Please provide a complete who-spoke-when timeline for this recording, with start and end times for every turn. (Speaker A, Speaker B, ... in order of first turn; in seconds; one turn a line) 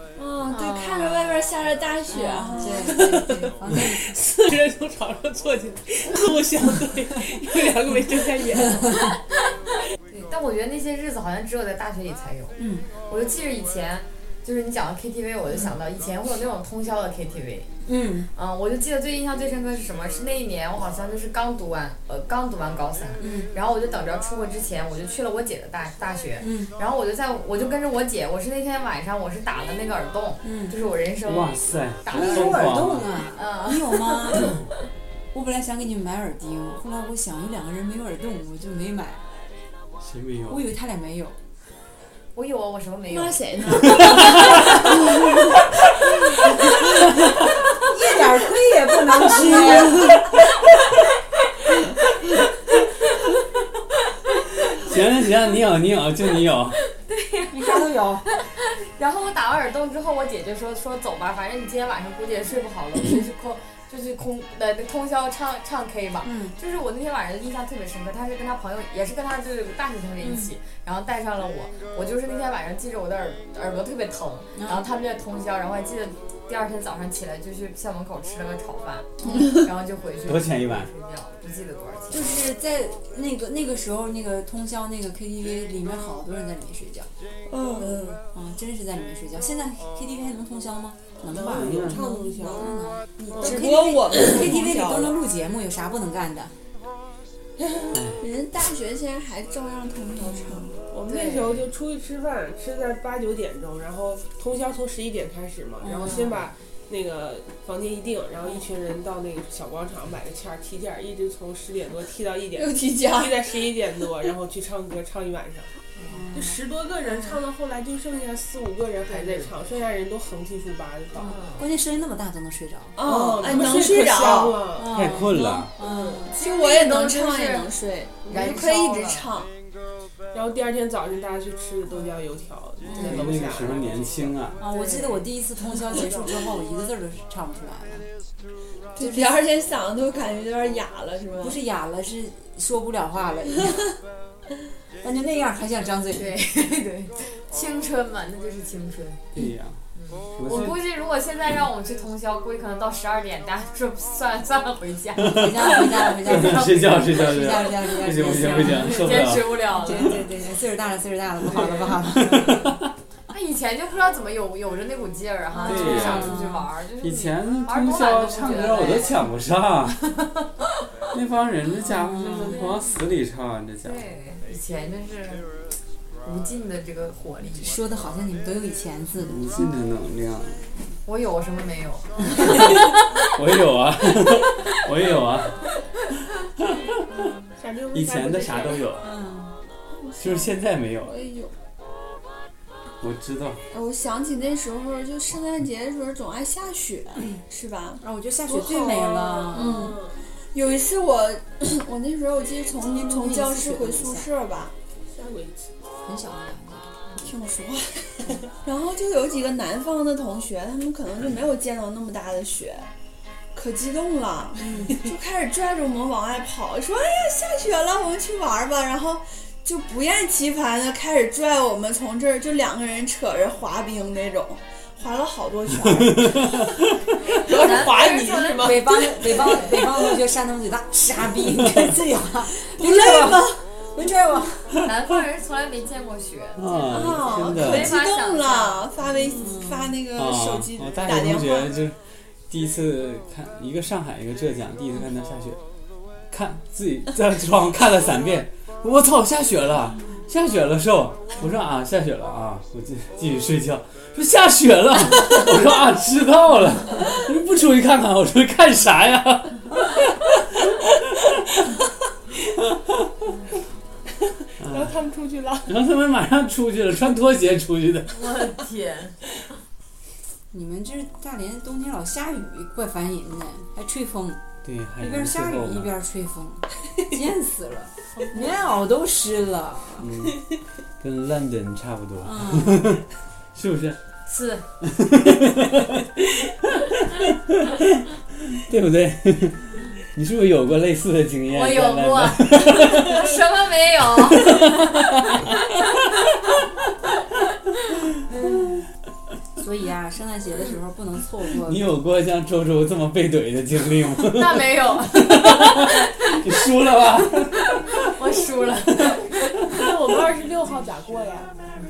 Speaker A: 0.1-3.1
Speaker B: 0.5-1.2
Speaker C: 2.1-4.1
Speaker D: 2.9-9.1
Speaker B: 10.3-17.7
Speaker C: 12.6-12.8
Speaker C: 17.8-18.3
Speaker B: 18.3-34.5
Speaker C: 23.2-23.5
Speaker C: 26.4-26.7
Speaker C: 30.4-30.8
Speaker E: 31.2-33.1
Speaker C: 32.1-34.5
Speaker C: 35.3-39.3
Speaker E: 40.0-40.6
Speaker C: 40.5-41.4
Speaker B: 42.3-43.4
Speaker A: 43.1-45.4
Speaker C: 47.8-50.1
Speaker A: 49.4-50.1
Speaker E: 54.8-56.8
Speaker B: 56.9-82.2
Speaker C: 57.5-58.2
Speaker C: 66.2-66.5
Speaker C: 70.2-70.5
Speaker C: 74.5-74.8
Speaker C: 79.2-79.6
Speaker E: 80.2-80.9
Speaker C: 82.1-87.1
Speaker A: 87.5-88.2
Speaker C: 87.9-96.5
Speaker D: 91.2-92.8
Speaker E: 91.5-92.0
Speaker D: 93.4-93.7
Speaker A: 93.4-95.2
Speaker E: 97.9-98.2
Speaker A: 98.2-100.8
Speaker C: 100.2-100.7
Speaker D: 100.9-115.7
Speaker B: 101.1-101.6
Speaker C: 105.9-106.3
Speaker A: 112.5-113.7
Speaker C: 116.1-116.4
Speaker D: 116.3-121.4
Speaker B: 119.1-119.5
Speaker B: 121.2-121.6
Speaker C: 121.5-123.0
Speaker A: 123.0-124.6
Speaker D: 123.0-125.0
Speaker C: 124.7-126.3
Speaker E: 124.9-125.7
Speaker D: 125.8-126.2
Speaker A: 126.2-129.5
Speaker B: 126.3-127.7
Speaker B: 128.2-129.3
Speaker D: 130.3-134.3
Speaker E: 133.0-134.6
Speaker C: 134.6-138.1
Speaker B: 134.7-135.3
Speaker D: 135.9-136.3
Speaker A: 138.9-141.6
Speaker C: 139.0-139.3
Speaker C: 141.4-143.8
Speaker C: 145.0-146.3
Speaker B: 146.1-149.2
Speaker E: 149.3-149.8
Speaker B: 149.9-157.7
Speaker E: 150.4-150.7
Speaker E: 155.2-159.6
Speaker C: 155.2-162.8
Speaker B: 158.3-160.2
Speaker B: 161.4-162.5
Speaker E: 162.2-162.9
Speaker B: 163.3-169.2
Speaker C: 165.5-166.7
Speaker E: 165.6-170.0
Speaker B: 170.1-170.6
Speaker E: 171.1-174.0
Speaker C: 171.8-172.7
Speaker B: 172.5-172.9
Speaker B: 173.8-175.5
Speaker B: 176.2-177.8
Speaker C: 177.6-179.7
Speaker E: 179.2-180.6
Speaker B: 181.1-182.8
Speaker E: 182.5-185.6
Speaker D: 187.6-188.9
Speaker E: 187.9-189.1
Speaker C: 189.0-189.6
Speaker A: 190.0-191.5
Speaker E: 190.2-191.1
Speaker E: 193.0-193.6
Speaker A: 193.7-204.7
Speaker C: 198.0-199.9
Speaker D: 199.5-200.2
Speaker C: 202.8-204.3
Speaker D: 205.1-205.7
Speaker C: 206.0-207.0
Speaker A: 207.2-212.9
Speaker A: 213.5-226.8
Speaker C: 214.6-215.0
Speaker E: 226.1-226.7
Speaker D: 227.3-229.1
Speaker B: 227.4-229.7
Speaker C: 228.6-234.9
Speaker A: 232.6-233.7
Speaker B: 234.8-238.8
Speaker E: 236.6-238.0
Speaker A: 236.8-241.7
Speaker C: 239.3-239.9
Speaker E: 240.1-242.0
Speaker E: 242.5-245.6
Speaker E: 246.3-261.4
Speaker D: 264.6-265.8
Speaker E: 264.6-264.9
Speaker E: 265.6-268.1
Speaker B: 268.1-269.2
Speaker C: 270.5-274.4
Speaker E: 274.6-275.9
Speaker C: 275.0-280.1
Speaker B: 278.2-278.5
Speaker E: 280.0-280.5
Speaker E: 281.0-284.0
Speaker C: 282.2-283.0
Speaker B: 284.3-284.6
Speaker E: 284.8-293.3
Speaker B: 291.5-294.9
Speaker E: 294.4-295.4
Speaker C: 299.6-301.9
Speaker E: 301.6-308.1
Speaker B: 304.3-306.4
Speaker B: 307.9-309.6
Speaker D: 309.7-311.6